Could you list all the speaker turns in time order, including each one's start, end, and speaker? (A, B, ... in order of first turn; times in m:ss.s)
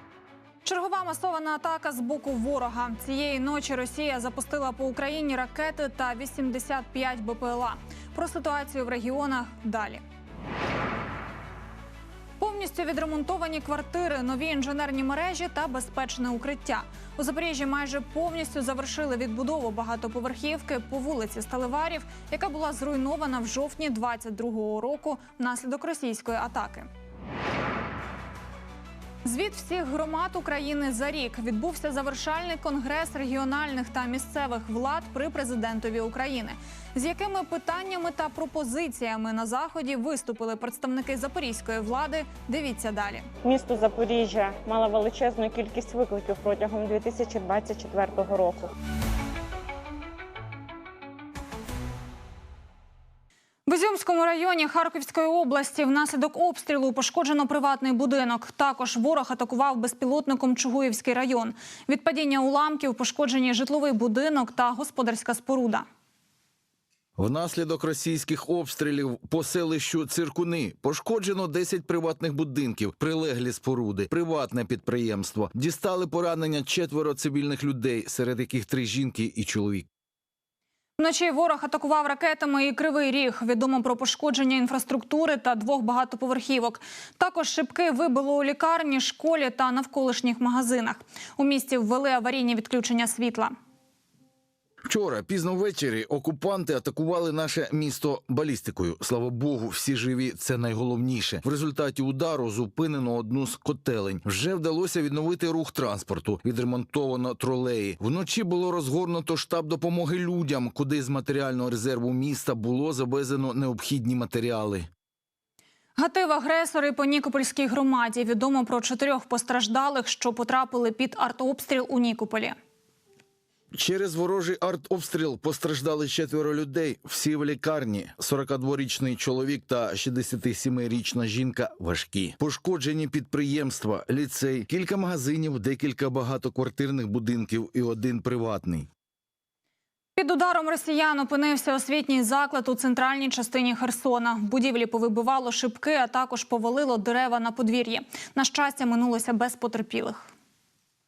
0:00.6-0:10.0 A
0:12.4-0:26.9 A
0:29.2-0:43.3 A
0:43.4-0:48.7 B
0:53.7-1:05.8 A
1:07.2-1:19.8 C
1:21.0-1:33.5 A
1:34.8-1:54.9 C
1:56.0-2:02.5 A
2:03.7-2:18.9 C
2:20.2-2:30.3 A